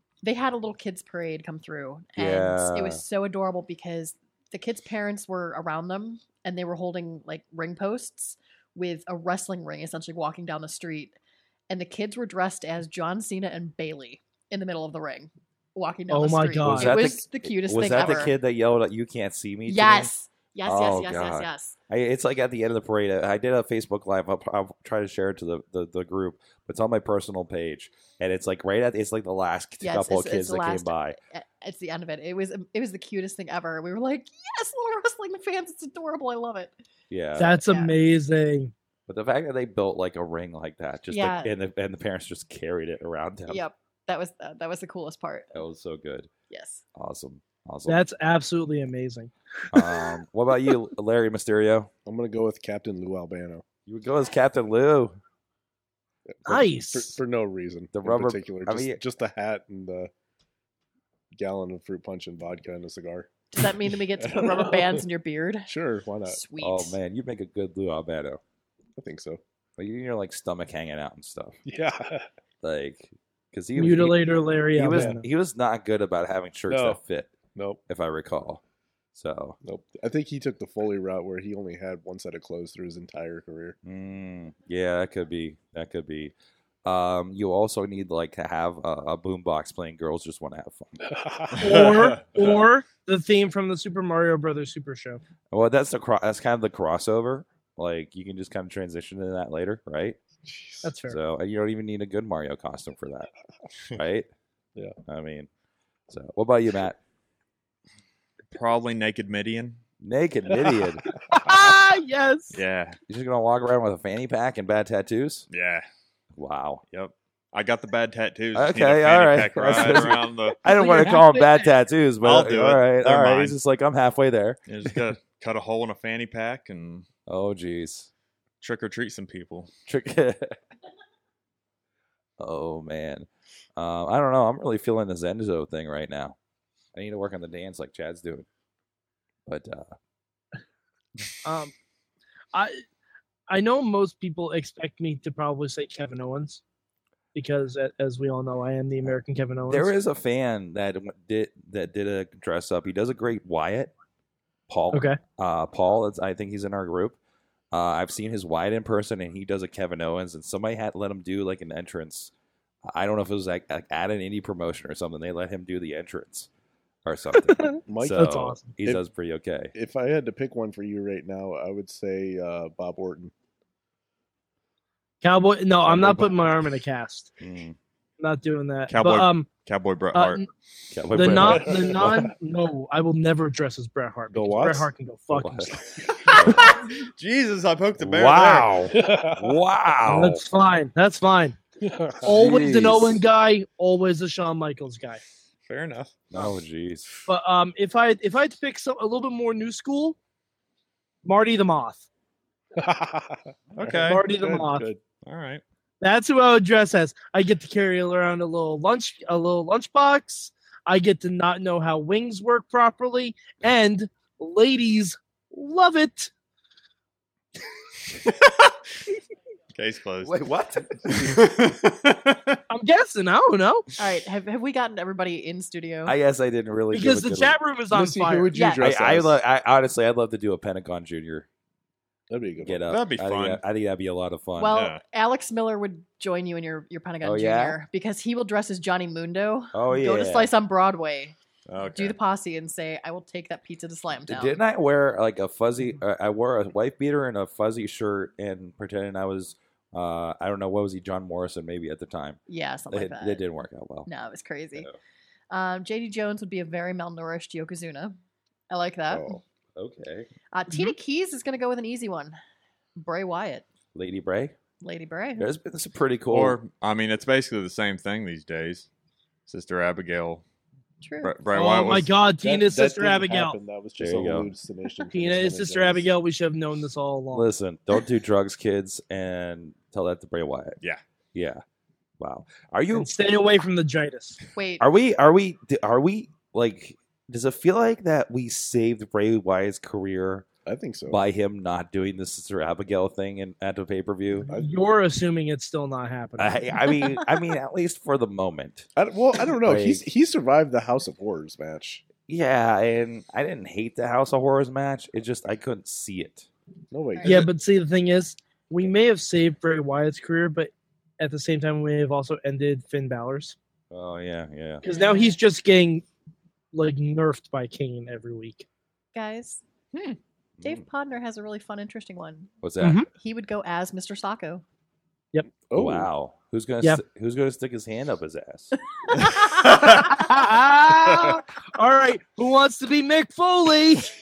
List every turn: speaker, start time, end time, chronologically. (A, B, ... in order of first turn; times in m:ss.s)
0:00.2-0:11.2 A
0:02.2-0:03.0 B
0:11.7-0:18.4 A
0:16.1-0:16.9 C
0:16.6-0:20.1 B
0:19.7-0:21.8 A
0:20.6-0:31.2 B
0:29.8-0:36.8 A
0:37.1-0:37.6 B
0:37.4-0:38.7 C
0:37.4-0:38.0 A
0:39.1-0:43.6 B
0:41.1-0:41.5 A
0:43.5-0:45.6 A
0:45.5-0:46.3 B
0:46.5-0:46.8 A
0:47.0-0:48.0 B
0:47.9-0:50.0 C
0:49.7-0:51.9 B
0:52.1-0:53.6 D
0:53.9-0:55.2 B
0:56.3-1:00.1 D
0:56.4-0:57.2 C
0:57.9-0:59.0 B
1:01.4-1:03.6 D
1:03.5-1:05.7 A
1:04.2-1:05.0 D
1:05.7-1:06.4 D
1:06.3-1:07.0 A
1:06.6-1:08.4 B
1:09.0-1:09.4 D
1:09.8-1:11.6 B
1:11.6-1:12.3 D
1:12.6-1:17.3 B
1:13.8-1:15.2 C
1:14.9-1:15.2 D
1:16.7-1:17.0 D
1:17.6-1:17.8 D
1:17.9-1:18.6 B
1:19.1-1:19.6 B
1:19.6-1:23.8 D
1:23.8-1:26.3 B
1:26.8-1:31.0 B
1:31.0-1:32.6 D
1:31.6-1:35.2 C
1:35.5-1:40.2 B
1:40.4-1:40.9 D
1:40.8-1:41.2 C
1:41.1-1:43.3 B
1:43.9-1:44.3 B
1:45.1-1:45.5 B
1:46.1-1:47.0 B
1:48.5-1:49.8 E
1:50.0-1:51.0 B
1:51.3-1:52.6 C
1:52.5-1:53.0 E
1:53.1-1:55.4 B
1:55.5-1:55.8 E
1:56.4-1:56.8 B
1:56.9-2:00.6 E
1:58.6-2:05.0 B
2:00.7-2:01.5 C
2:02.2-2:03.6 E
2:04.7-2:07.1 E
2:07.3-2:08.1 B
2:08.6-2:09.7 E
2:09.9-2:10.6 B
2:12.4-2:16.4 B
2:17.0-2:18.5 B
2:19.4-2:20.0 B
2:21.4-2:21.7 C
2:22.5-2:22.8 C
2:23.5-2:26.6 C
2:27.3-2:29.9 C
2:29.7-2:33.9 B
2:34.7-2:37.2 B
2:34.9-2:35.2 C
2:37.7-2:42.3 B
2:42.9-2:46.5 B
2:47.0-2:49.7 B
2:47.4-2:48.7 C
2:47.9-2:49.0 D
2:49.7-2:53.3 D
2:55.2-2:57.3 C
2:55.9-2:56.2 B
2:57.4-2:57.8 B
2:58.2-2:59.5 C
2:58.9-3:00.4 E
3:00.1-3:00.5 C
3:00.9-3:02.3 B
3:01.1-3:06.4 C
3:01.2-3:02.3 D
3:04.3-3:04.9 D
3:05.3-3:06.8 B
3:06.7-3:08.9 E
3:08.0-3:10.4 B
3:08.9-3:09.6 D
3:10.0-3:11.6 C
3:11.8-3:12.3 D
3:12.2-3:13.2 B
3:12.2-3:15.2 C
3:15.7-3:16.2 E
3:16.3-3:17.1 B
3:17.3-3:20.2 C
3:21.2-3:22.0 C
3:22.8-3:25.0 D
3:23.8-3:24.2 E
3:24.0-3:24.9 C
3:25.2-3:25.6 E
3:26.0-3:36.3 C
3:39.7-3:40.4 E
3:40.2-3:41.4 B
3:41.0-3:42.6 E
3:42.7-3:43.9 C
3:44.0-3:46.1 A
3:46.0-3:47.6 B
3:46.9-3:48.5 C
3:47.9-3:49.4 D
3:48.5-3:48.9 A
3:48.7-3:51.5 B
3:52.3-3:52.9 D
3:52.6-3:54.8 B
3:52.9-3:53.6 E
3:54.6-4:01.4 A
3:54.7-3:55.0 E
3:57.2-3:57.8 B
3:59.7-4:00.5 B
4:01.7-4:02.2 E
4:01.9-4:04.6 A
4:04.3-4:12.4 B
4:12.5-4:13.4 A
4:12.9-4:14.1 B
4:14.1-4:14.9 A
4:15.5-4:18.2 A
4:18.7-4:19.4 A
4:19.1-4:19.4 D
4:19.8-4:20.3 B
4:20.5-4:22.4 A
4:23.0-4:23.7 A
4:24.0-4:24.6 B
4:24.8-4:25.5 A
4:25.4-4:26.6 B
4:26.3-4:28.9 E
4:29.5-4:30.4 E
4:31.0-4:31.4 A
4:31.2-4:32.1 E
4:31.5-4:33.6 C
4:32.4-4:36.1 D
4:34.0-4:34.5 B
4:35.1-4:37.5 C
4:37.3-4:40.8 B
4:41.3-4:41.6 B
4:42.2-4:43.1 B
4:42.9-4:44.4 C
4:44.6-4:44.9 A
4:44.8-4:50.4 B
4:50.7-4:51.2 D
4:51.1-4:54.5 B
4:54.5-4:54.8 D
4:54.5-4:56.6 C
4:56.4-4:58.9 B
4:56.9-4:57.4 A
4:59.0-5:02.0 D
4:59.6-5:00.1 B
5:02.3-5:06.5 B
5:06.9-5:07.5 D
5:07.1-5:07.4 A
5:07.2-5:13.6 C
5:13.9-5:14.8 B
5:14.8-5:16.0 C
5:14.8-5:15.4 A
5:16.7-5:18.7 C
5:19.1-5:22.5 A
5:22.6-5:23.0 B
5:22.8-5:23.1 C
5:23.1-5:24.6 A
5:25.7-5:26.1 D
5:25.7-5:28.7 B
5:29.0-5:30.3 A
5:29.7-5:34.1 C